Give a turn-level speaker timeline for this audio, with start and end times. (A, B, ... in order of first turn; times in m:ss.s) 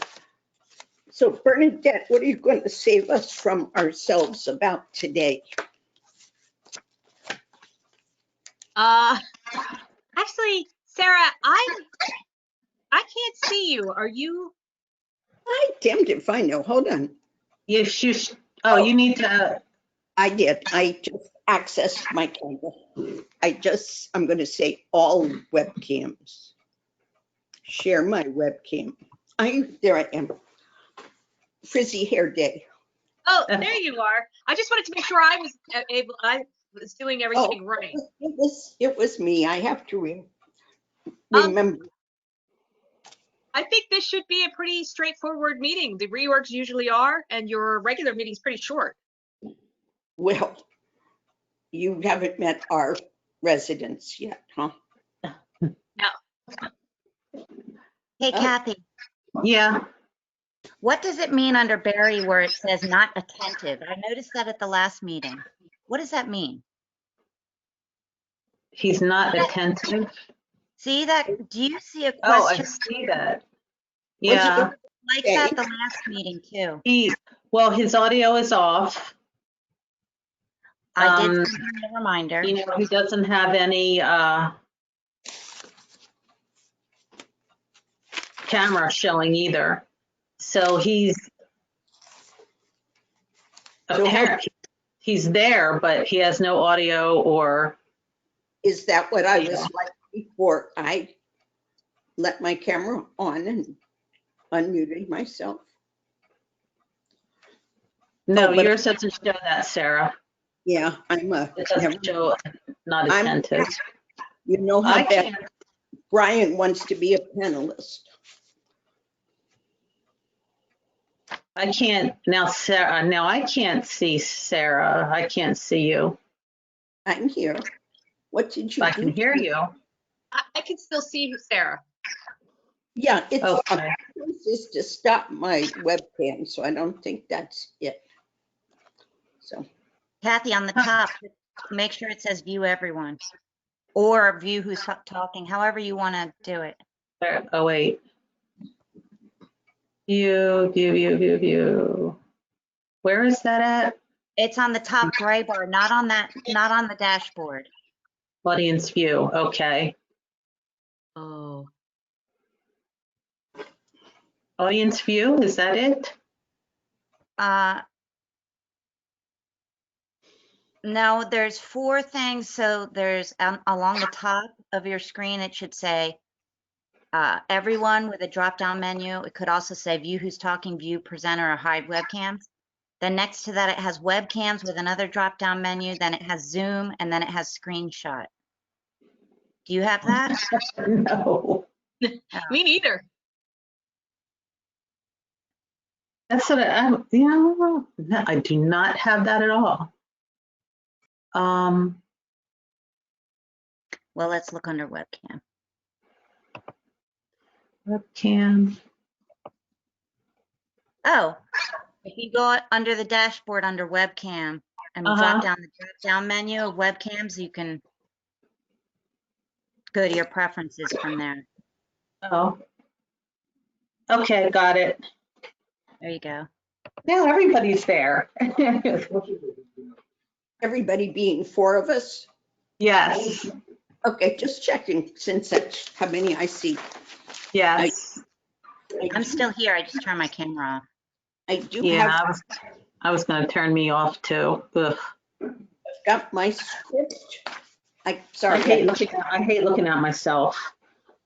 0:01.1-0:05.4 A
0:08.8-0:09.2 B
0:10.2-0:11.8 B
0:12.9-0:14.5 B
0:15.5-0:17.1 A
0:17.7-0:19.6 C
0:20.2-0:26.5 A
0:27.6-0:30.3 A
0:31.6-0:32.6 A
0:33.2-0:38.0 B
0:37.3-0:40.3 A
0:41.3-0:41.9 A
0:43.5-0:49.0 B
0:50.2-0:50.6 A
0:51.7-0:54.7 A
0:58.2-0:58.8 D
0:59.4-0:59.8 C
1:00.8-1:06.6 D
1:08.7-1:10.1 C
1:10.8-1:12.8 D
1:12.2-1:13.4 C
1:14.2-1:14.7 C
1:14.2-1:14.7 A
1:15.0-1:16.8 D
1:15.2-1:15.6 A
1:16.8-1:19.2 C
1:21.0-1:22.5 D
1:21.0-1:21.5 C
1:22.4-1:24.5 C
1:28.4-1:29.8 C
1:30.4-1:31.3 C
1:33.9-1:34.5 C
1:34.0-1:34.4 A
1:35.0-1:37.8 C
1:38.6-1:41.1 A
1:39.4-1:39.7 C
1:42.2-1:43.8 A
1:44.5-1:45.6 A
1:48.3-1:50.1 C
1:48.3-1:48.8 A
1:50.6-1:52.2 A
1:51.6-1:53.8 C
1:53.1-1:53.7 A
1:54.4-1:55.3 A
1:54.8-1:55.4 C
1:56.1-1:58.1 A
2:01.5-2:06.2 C
2:07.0-2:07.6 A
2:08.3-2:09.5 A
2:08.8-2:09.7 C
2:10.3-2:11.8 B
2:12.9-2:18.0 A
2:13.4-2:14.0 C
2:19.4-2:19.7 A
2:20.2-2:23.2 D
2:23.9-2:26.8 D
2:27.2-2:28.0 C
2:30.1-2:32.2 C
2:33.0-2:34.0 C
2:34.4-2:37.7 D
2:38.4-2:40.0 C
2:41.2-2:41.7 B
2:44.6-2:46.2 C
2:47.4-2:47.8 D
2:50.8-2:56.2 D
2:57.1-3:02.5 D
3:03.0-3:08.3 D
3:09.6-3:10.4 D
3:10.1-3:11.7 C
3:12.0-3:13.0 B
3:16.3-3:19.9 C
3:21.3-3:22.0 C
3:24.1-3:25.4 D
3:27.8-3:28.8 C
3:31.0-3:31.4 D
3:32.0-3:37.8 D
3:35.0-3:35.5 C
3:39.9-3:41.4 D
3:42.2-3:42.6 C
3:44.1-3:45.0 C
3:46.0-3:46.5 D
3:47.0-3:49.4 C
3:50.6-3:52.3 A
3:52.8-3:53.5 C
3:54.0-3:56.8 A
3:57.5-3:58.2 C
3:59.1-4:00.8 D
4:01.5-4:02.2 A
4:01.8-4:02.4 C
4:03.0-4:05.0 C
4:06.0-4:07.4 A
4:08.0-4:08.9 A
4:08.5-4:10.7 C